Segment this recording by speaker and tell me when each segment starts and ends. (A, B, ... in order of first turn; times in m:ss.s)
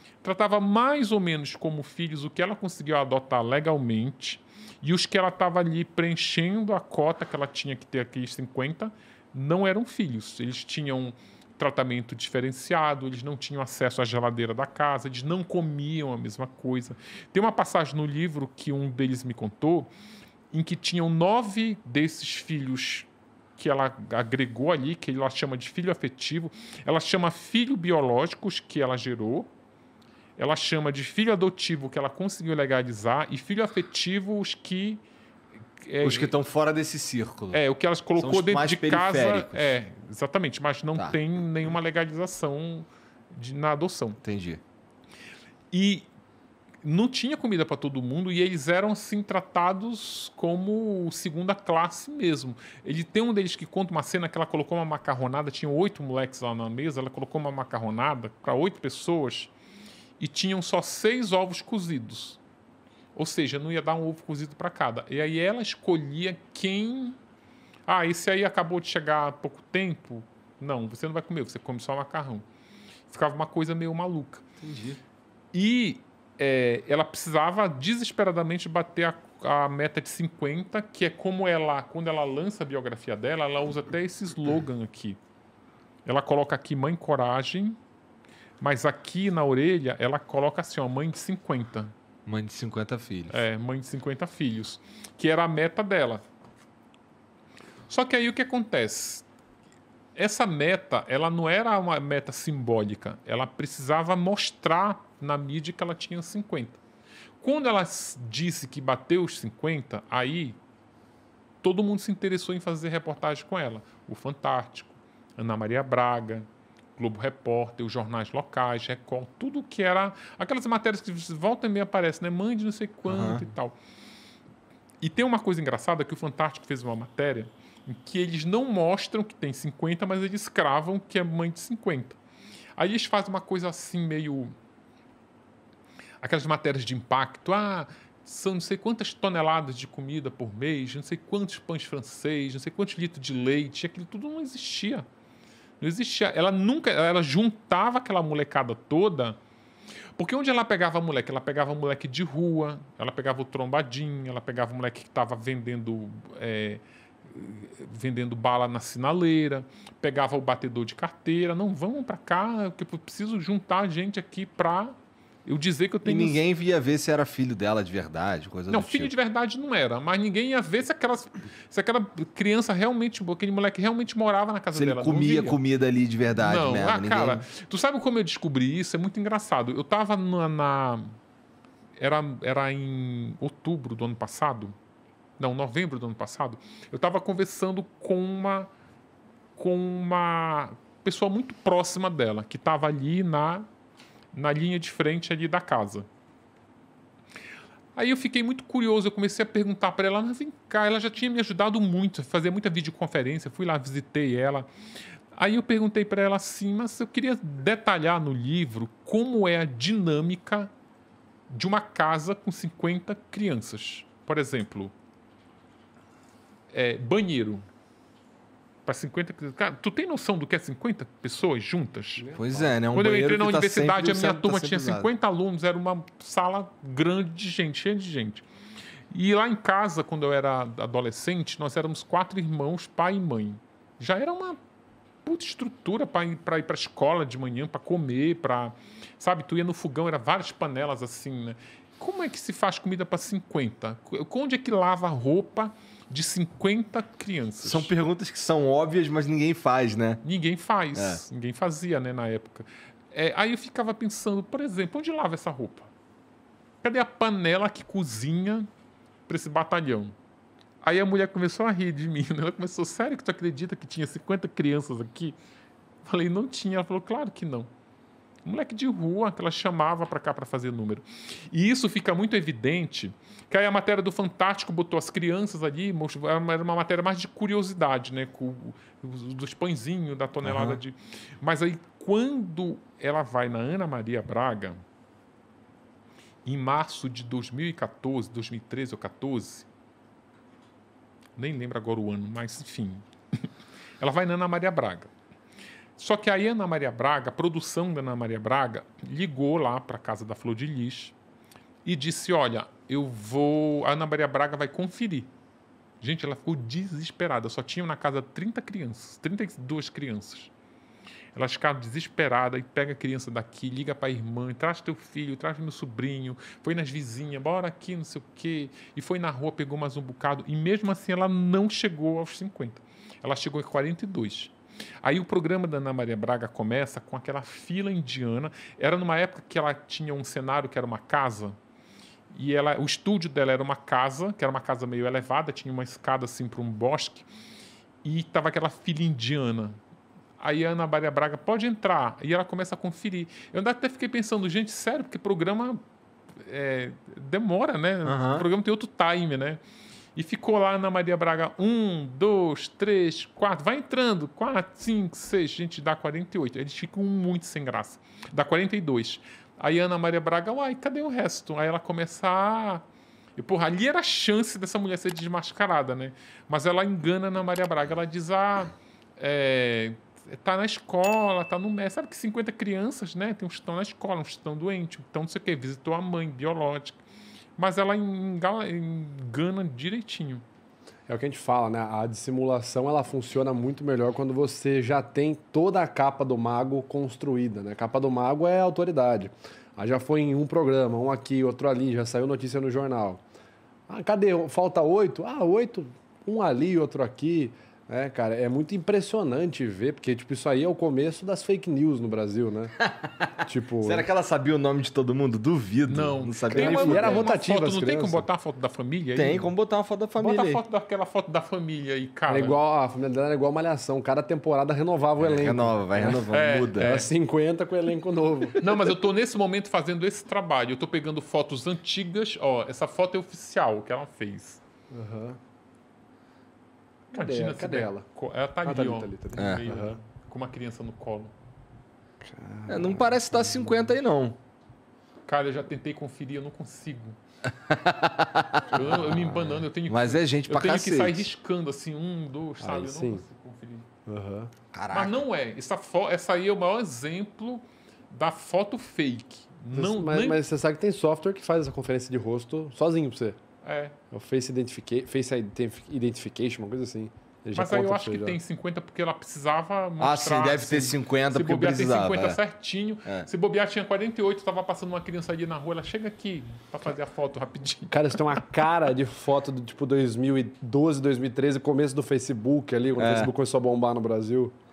0:00.2-0:19.9 A
0:20.5-0:29.5 A
0:30.4-0:35.0 A
0:35.8-0:36.3 A
0:36.0-0:37.6 B
0:37.5-0:44.2 A
0:38.2-0:39.7 B
0:44.2-0:44.6 B
0:45.7-0:46.1 A
0:46.8-0:59.5 A
1:00.2-1:02.4 A
1:03.1-1:07.2 A
1:07.9-1:12.4 A
1:13.1-1:14.4 A
1:14.6-1:15.0 B
1:15.5-1:25.2 A
1:26.0-1:27.8 A
1:28.6-1:31.9 A
1:32.2-1:33.4 B
1:33.3-1:36.2 A
1:37.9-1:39.2 A
1:40.1-1:46.8 A
1:47.4-1:50.6 A
1:51.6-2:03.7 A
2:03.0-2:03.5 B
2:05.0-2:12.2 A
2:12.8-2:14.5 A
2:16.2-2:25.0 A
2:25.8-2:29.4 A
2:30.2-2:46.4 A
2:46.0-2:49.1 B
2:48.7-2:55.6 A
2:54.7-2:57.4 B
2:56.4-3:01.1 A
3:02.0-3:04.7 A
3:05.4-3:08.7 A
3:09.6-3:13.7 A
3:14.3-3:16.1 A
3:18.0-3:24.7 A
3:25.3-3:30.7 A
3:31.5-3:34.9 A
3:36.7-3:37.6 A
3:38.8-3:42.3 A
3:42.2-3:42.7 C
3:42.4-3:45.1 B
3:42.9-3:48.4 A
3:49.1-3:54.6 A
3:55.2-4:07.9 A
4:07.6-4:10.2 B
4:10.2-4:15.9 A
4:10.9-4:11.2 B
4:16.8-4:18.7 A
4:19.3-4:20.1 A
4:20.8-4:25.4 A
4:26.0-4:27.7 A
4:28.4-4:44.8 A
4:40.4-4:40.8 B
4:46.4-4:49.7 A
4:51.4-4:53.4 A
4:54.0-4:55.1 A
4:56.0-5:01.1 A
5:01.8-5:05.3 A
5:06.0-5:10.5 A
5:11.3-5:31.6 A
5:32.3-5:37.3 A
5:38.0-5:39.8 A
5:40.4-5:45.8 A
5:46.4-5:49.6 A
5:48.0-5:48.5 B
5:50.2-6:02.8 A
6:03.4-6:17.0 A
6:17.6-6:20.4 A
6:21.1-6:33.2 C
6:33.9-6:42.8 C
6:42.8-6:47.3 B
6:43.4-6:44.0 C
6:45.9-6:49.5 A
6:46.5-6:48.3 C
6:49.1-6:50.6 B
6:50.2-6:52.6 A
6:52.3-6:58.6 C
6:55.2-6:57.0 B
6:56.3-6:57.1 A
6:58.6-7:04.6 A
7:04.9-7:05.4 C
7:07.1-7:08.0 C
7:07.1-7:11.3 A
7:08.6-7:10.0 C
7:09.4-7:09.6 B
7:12.2-7:13.9 C
7:12.7-7:14.4 B
7:15.3-7:17.2 A
7:17.5-7:19.0 B
7:18.7-7:23.9 A
7:18.8-7:19.6 C
7:19.9-7:21.3 B
7:22.6-7:23.2 C
7:24.0-7:24.5 C
7:24.7-7:25.2 B
7:24.9-7:30.4 A
7:29.7-7:33.4 C
7:33.6-7:34.0 A
7:34.1-7:38.4 C
7:37.5-7:48.4 A
7:40.0-7:42.4 B
7:47.9-7:54.5 C
7:53.0-7:53.3 B